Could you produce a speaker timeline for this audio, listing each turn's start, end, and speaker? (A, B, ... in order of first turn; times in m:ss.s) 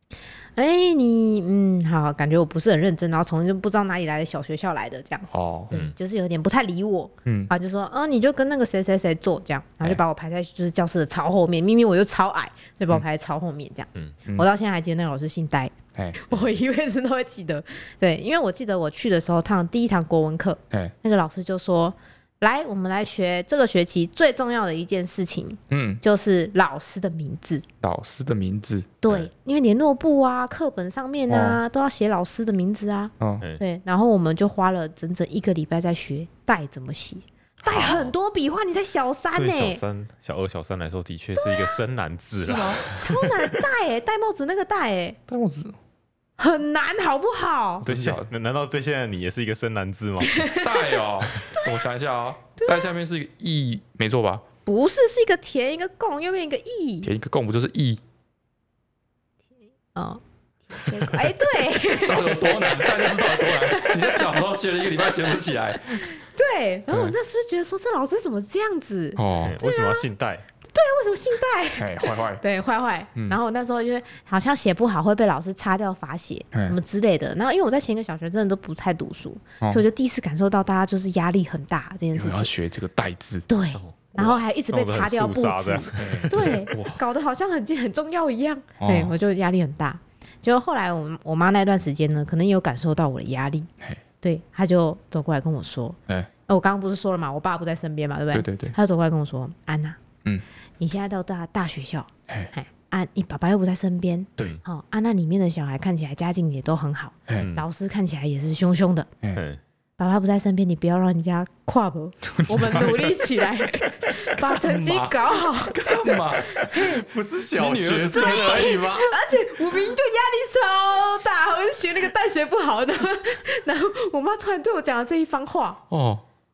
0:00.6-0:27.6 A
0:05.3-0:05.7 B
0:07.2-0:07.5 B
0:25.7-0:26.0 B
0:27.8-0:28.9 B
0:29.0-0:39.8 A
0:31.3-0:31.6 B
0:33.2-0:33.4 B
0:37.6-0:38.1 B
0:37.7-0:38.0 C
0:39.3-0:43.5 C
0:41.4-0:41.8 A
0:42.4-0:45.2 A
0:42.5-0:42.8 B
0:45.3-0:45.8 B
0:46.4-0:47.8 A
0:47.8-0:48.3 B
0:47.8-0:50.5 C
0:50.2-0:51.0 A
0:50.5-0:54.4 B
0:52.6-0:52.9 A
0:54.6-0:57.1 A
0:57.0-0:58.0 B
0:59.9-1:04.4 A
1:01.9-1:06.1 B
1:05.9-1:10.1 A
1:09.2-1:09.6 B
1:09.4-1:10.4 C
1:10.7-1:22.5 A
1:11.8-1:12.4 B
1:22.1-1:23.4 B
1:23.5-1:33.7 A
1:23.7-1:26.6 C
1:26.0-1:27.0 B
1:28.8-1:29.1 B
1:34.2-1:40.0 A
1:38.3-1:38.7 B
1:40.8-1:49.1 A
1:47.4-1:47.6 C
1:49.3-1:49.6 C
1:50.0-1:57.0 A
1:52.2-1:57.0 B
1:56.7-1:59.1 C
1:57.6-1:58.8 B
1:58.1-2:05.8 A
2:05.9-2:06.2 B